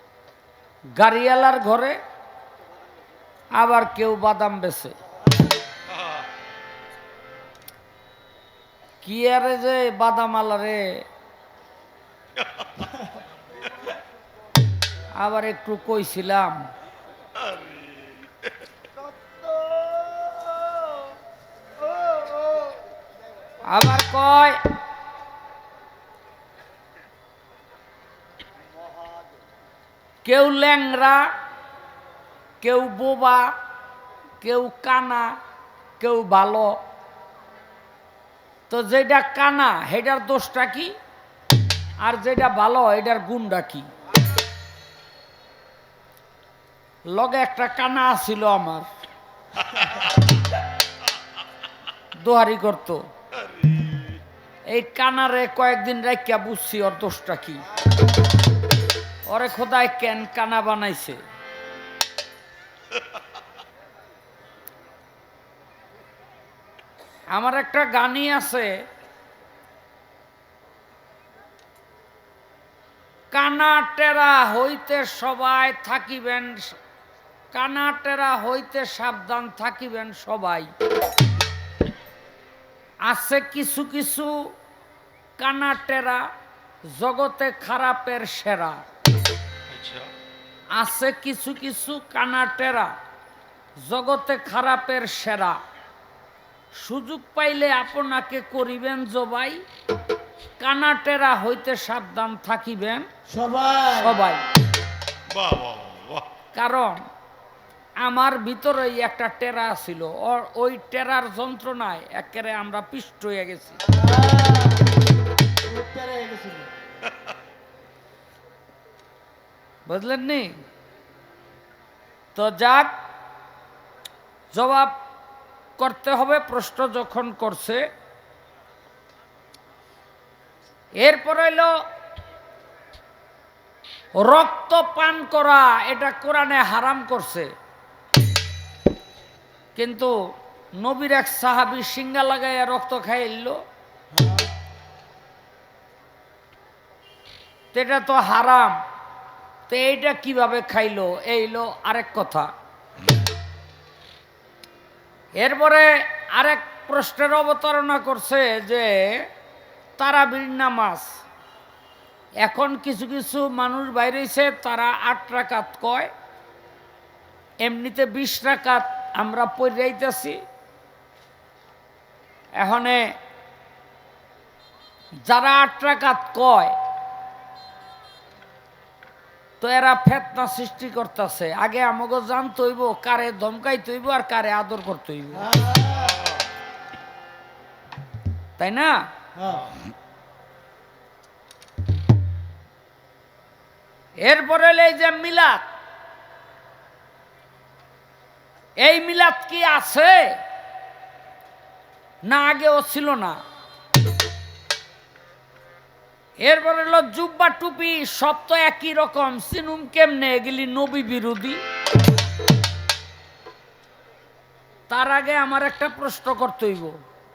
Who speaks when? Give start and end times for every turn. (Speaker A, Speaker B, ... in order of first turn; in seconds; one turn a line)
Speaker A: 1.0-2.0
Speaker A: 3.5-5.0
Speaker B: 5.9-6.2
Speaker A: 9.0-11.0
Speaker A: 15.2-16.7
Speaker B: 17.4-18.5
Speaker B: 19.7-20.3
Speaker A: 23.7-24.6
Speaker A: 30.2-31.3
Speaker A: 32.6-33.5
Speaker A: 34.4-35.4
Speaker A: 36.0-36.8
Speaker A: 38.7-40.9
Speaker A: 42.0-43.9
Speaker A: 47.1-48.9
Speaker A: 52.1-53.1
Speaker B: 53.4-54.2
Speaker A: 54.7-57.6
Speaker A: 59.3-61.2
Speaker A: 67.3-68.7
Speaker A: 73.3-76.8
Speaker A: 77.5-80.7
Speaker A: 83.1-84.5
Speaker A: 85.4-86.3
Speaker A: 86.9-88.8
Speaker B: 89.7-90.1
Speaker A: 90.7-92.9
Speaker A: 93.8-95.6
Speaker A: 96.7-99.6
Speaker A: 100.6-103.1
Speaker C: 103.3-104.2
Speaker A: 103.9-104.4
Speaker B: 105.3-106.3
Speaker A: 106.5-107.1
Speaker A: 108.0-113.8
Speaker C: 113.8-115.0
Speaker C: 115.6-116.7
Speaker A: 119.9-120.6
Speaker A: 122.3-122.9
Speaker A: 124.5-124.9
Speaker A: 125.8-127.8
Speaker A: 131.0-131.7
Speaker A: 134.2-137.5
Speaker A: 139.8-140.1
Speaker A: 140.8-143.6
Speaker C: 144.1-144.5
Speaker A: 147.7-148.8
Speaker A: 149.7-152.5
Speaker A: 155.4-159.3
Speaker A: 160.0-161.2
Speaker A: 162.4-166.1
Speaker A: 167.6-170.4
Speaker A: 172.6-173.1
Speaker A: 175.3-176.8
Speaker A: 179.6-185.5
Speaker C: 185.3-186.2
Speaker B: 185.9-186.5
Speaker A: 188.6-189.1
Speaker C: 189.3-189.7
Speaker A: 194.2-195.7
Speaker A: 198.8-200.4
Speaker A: 202.2-203.4
Speaker A: 206.4-211.6
Speaker A: 214.9-216.9